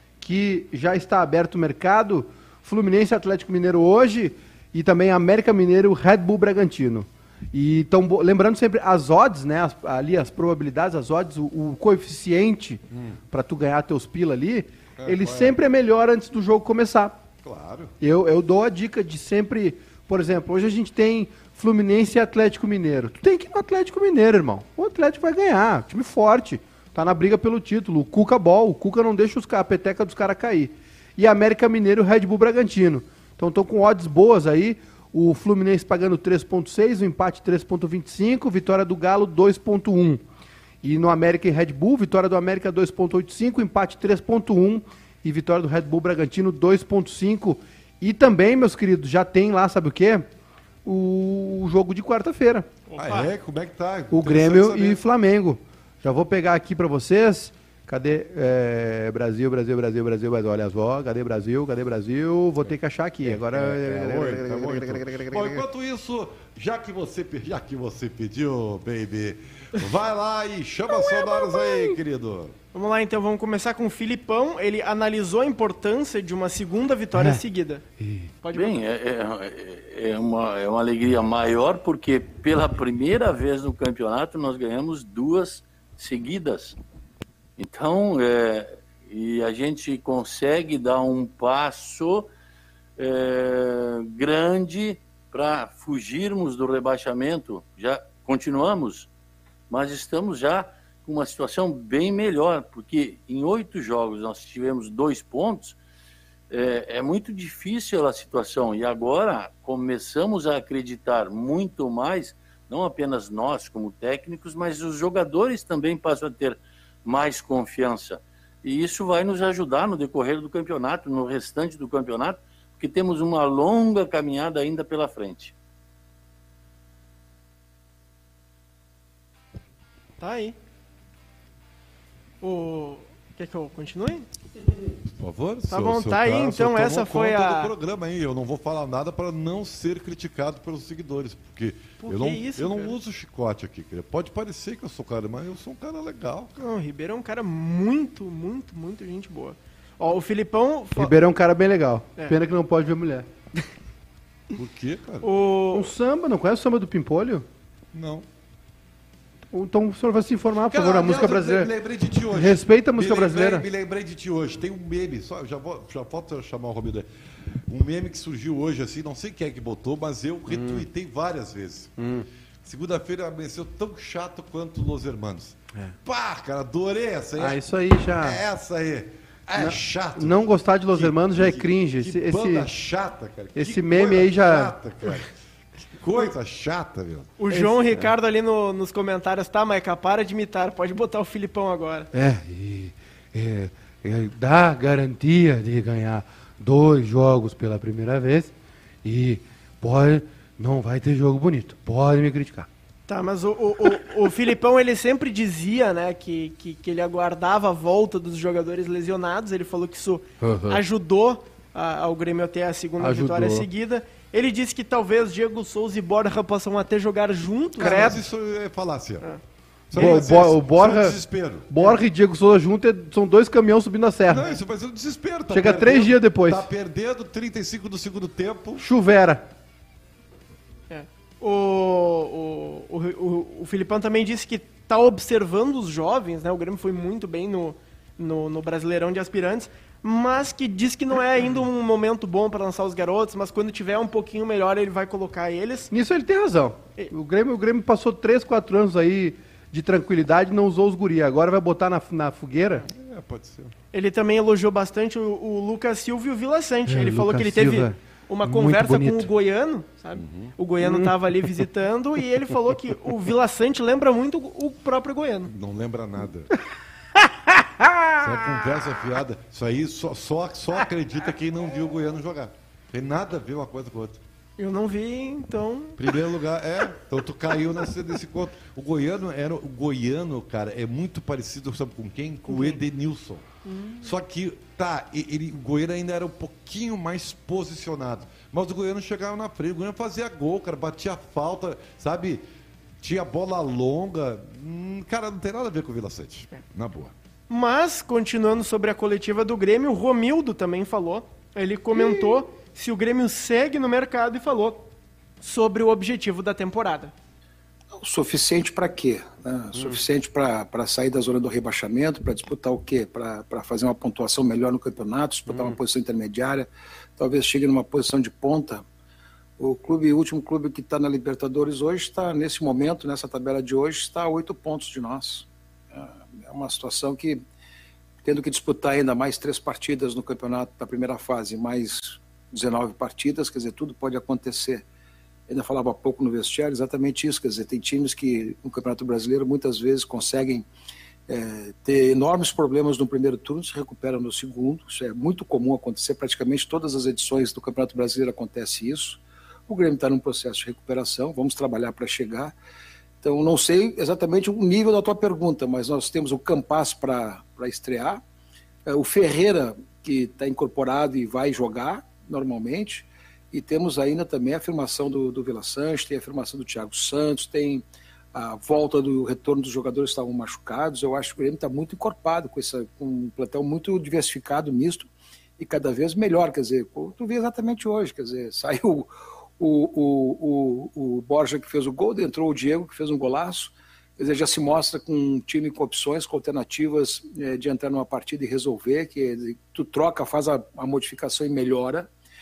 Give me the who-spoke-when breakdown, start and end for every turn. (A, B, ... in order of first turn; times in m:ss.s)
0:00.2-0:17.2 A
0:12.9-0:13.2 B
0:15.0-0:15.6 B
0:17.4-0:17.9 B
0:18.0-0:40.2 A
0:40.8-0:50.3 A
0:50.8-0:52.7 A
0:52.9-0:53.3 C
0:53.0-0:55.0 B
0:54.1-1:05.6 A
1:03.2-1:12.6 B
1:11.1-1:11.8 A
1:12.7-1:17.8 C
1:17.2-1:17.4 A
1:18.0-1:18.3 A
1:18.4-1:18.8 C
1:18.5-1:26.8 D
1:27.6-1:32.3 D
1:33.0-1:39.1 D
1:39.7-1:45.8 D
1:46.5-2:05.5 D
2:10.2-2:10.6 C
2:12.4-2:14.3 C
2:15.2-2:26.5 B
2:15.7-2:17.7 C
2:22.0-2:23.0 C
2:26.6-2:31.1 C
2:31.0-2:33.3 A
2:34.5-2:35.3 B
2:35.2-2:35.9 C
2:35.7-2:37.5 A
2:37.9-2:38.3 B
2:39.5-2:41.7 A
2:40.6-2:47.1 B
2:42.3-2:43.7 A
2:47.7-2:52.0 B
2:50.5-2:50.8 A
2:52.0-2:52.3 A
2:52.6-3:05.3 B
2:57.4-2:58.4 A
2:59.6-3:02.7 A
3:03.6-3:04.8 A
3:05.9-3:07.3 B
3:07.4-3:12.1 C
3:07.5-3:08.1 A
3:12.1-3:18.5 A
3:19.0-3:22.7 A
3:23.1-3:38.2 C
3:30.4-3:30.8 A
3:33.0-3:33.7 A
3:37.8-3:38.2 A
3:37.8-3:39.3 B
3:39.9-3:41.7 B
3:39.9-3:44.5 A
3:44.3-3:48.9 B
3:45.5-3:46.7 A
3:48.8-3:49.5 A
3:50.9-4:05.9 C
4:05.9-4:12.9 A
4:12.9-4:13.7 B
4:13.9-4:25.5 C
4:16.9-4:19.3 A
4:20.2-4:20.5 B
4:20.8-4:21.1 A
4:25.5-4:26.5 B
4:27.5-4:28.3 A
4:28.2-4:34.2 B
4:34.6-4:36.0 C
4:36.0-4:43.4 B
4:42.5-4:42.8 C
4:43.6-4:44.1 C
4:44.0-4:52.4 B
4:53.0-4:57.1 B
4:57.5-5:04.9 C
5:01.9-5:02.4 A
5:05.4-5:07.1 C
5:07.9-5:18.8 E
5:15.5-5:15.8 A
5:19.6-5:27.4 E
5:28.2-5:34.8 E
5:35.5-5:40.7 E
5:41.3-5:52.6 E
5:53.2-5:58.2 E
5:58.9-6:32.1 E